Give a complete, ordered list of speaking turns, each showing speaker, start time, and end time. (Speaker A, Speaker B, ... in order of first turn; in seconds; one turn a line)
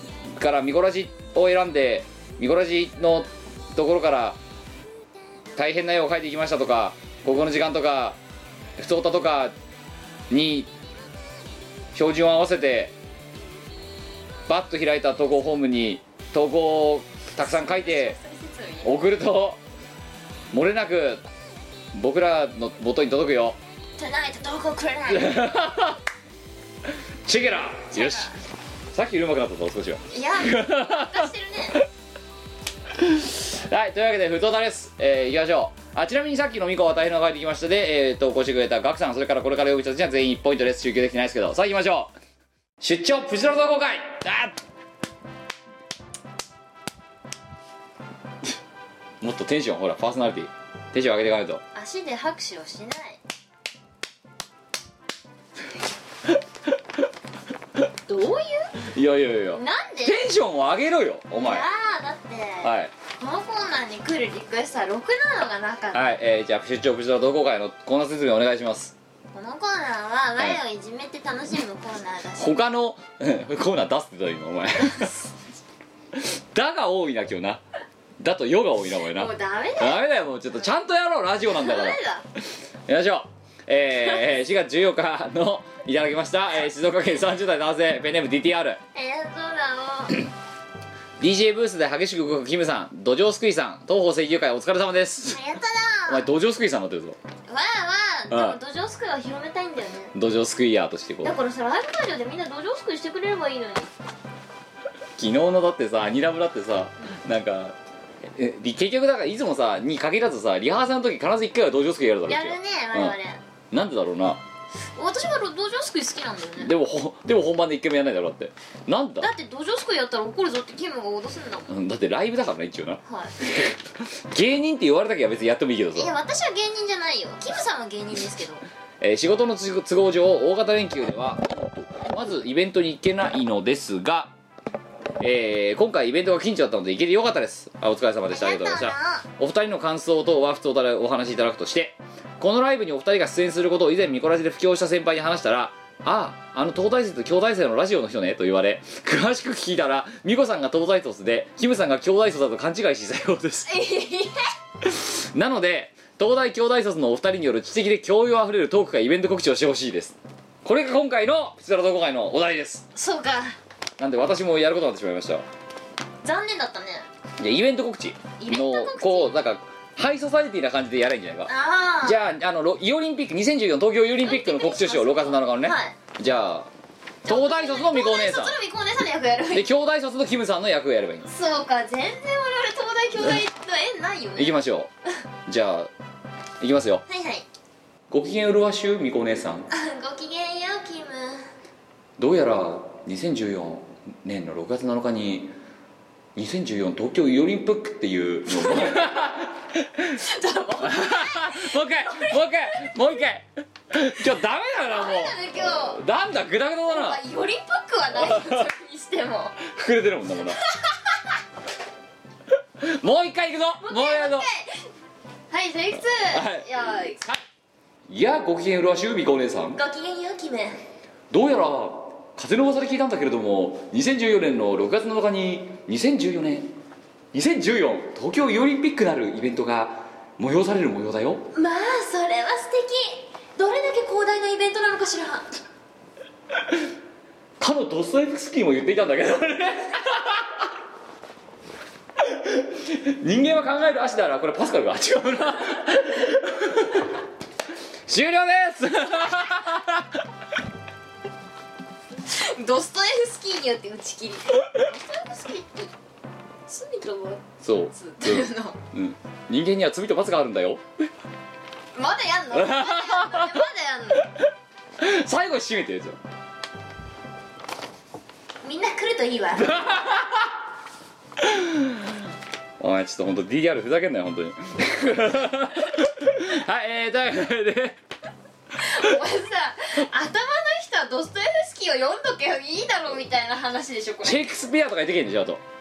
Speaker A: 0.3-4.4
Speaker A: 5.6-8.2
Speaker A: 8.8-9.5
Speaker A: 10.3-10.7
Speaker A: 11.9-12.9
Speaker A: 14.5-18.2
Speaker B: 17.4-19.0
Speaker A: 18.8-19.6
Speaker A: 20.5-21.2
Speaker A: 21.9-23.6
Speaker B: 24.0-25.4
Speaker A: 25.1-26.0
Speaker A: 27.3-28.3
Speaker B: 27.9-28.3
Speaker A: 28.9-31.2
Speaker B: 30.1-31.8
Speaker A: 33.0-42.1
Speaker A: 42.8-44.5
Speaker A: 49.2-51.6
Speaker B: 51.7-53.2
Speaker B: 58.1-58.7
Speaker A: 58.9-61.7
Speaker B: 59.5-60.2
Speaker B: 61.4-66.0
Speaker A: 62.6-62.9
Speaker A: 65.9-68.9
Speaker B: 69.3-72.6
Speaker A: 72.4-75.1
Speaker A: 76.2-77.6
Speaker A: 78.2-82.0
Speaker B: 79.1-80.0
Speaker B: 81.5-82.2
Speaker A: 82.9-88.8
Speaker B: 89.0-90.2
Speaker A: 91.2-95.4
Speaker B: 95.3-96.3
Speaker A: 96.1-97.2
Speaker B: 97.5-100.1
Speaker A: 98.3-98.6
Speaker A: 100.1-101.3
Speaker B: 101.2-103.9
Speaker A: 105.2-107.8
Speaker A: 108.4-113.2
Speaker B: 112.3-113.4
Speaker A: 113.7-114.4
Speaker B: 115.0-116.7
Speaker A: 116.6-119.3
Speaker B: 119.2-121.7
Speaker A: 121.7-123.7
Speaker B: 123.0-123.3
Speaker A: 124.3-126.1
Speaker B: 126.0-128.7
Speaker A: 129.0-131.4
Speaker A: 132.1-134.3
Speaker A: 135.2-153.7
Speaker B: 138.3-139.2
Speaker B: 153.7-154.4
Speaker A: 154.8-162.8
Speaker B: 162.9-163.6
Speaker A: 164.0-165.4
Speaker B: 166.2-167.1
Speaker A: 167.4-171.5
Speaker B: 168.4-169.3
Speaker B: 171.5-172.2
Speaker A: 172.0-176.7
Speaker B: 174.2-176.0
Speaker B: 177.2-179.7
Speaker A: 177.3-178.6
Speaker A: 179.5-181.3
Speaker B: 181.3-184.6
Speaker A: 184.4-184.9
Speaker A: 185.5-185.9
Speaker A: 186.6-187.0
Speaker B: 187.1-187.4
Speaker A: 188.1-189.7
Speaker B: 189.7-191.5
Speaker A: 192.2-195.5
Speaker A: 196.4-200.1
Speaker B: 198.5-199.1
Speaker B: 200.2-202.9
Speaker A: 200.8-207.2
Speaker B: 204.9-206.0
Speaker B: 206.9-209.6
Speaker A: 208.2-208.7
Speaker A: 209.6-210.6
Speaker B: 210.9-211.2
Speaker A: 212.8-214.5
Speaker B: 213.8-214.7
Speaker B: 215.5-217.2
Speaker A: 216.0-217.4
Speaker A: 218.1-219.8
Speaker B: 219.8-220.8
Speaker A: 221.3-226.7
Speaker A: 227.3-231.5
Speaker B: 231.5-235.5
Speaker A: 237.6-240.4
Speaker A: 242.2-247.0
Speaker A: 248.1-250.1
Speaker B: 252.3-255.9
Speaker B: 256.7-258.8
Speaker A: 257.6-260.8
Speaker B: 261.9-264.3
Speaker A: 262.5-263.6
Speaker A: 265.0-266.2
Speaker B: 268.6-269.8
Speaker A: 269.6-270.5
Speaker A: 271.4-271.9
Speaker A: 272.8-278.0
Speaker B: 278.8-284.4
Speaker A: 284.2-285.6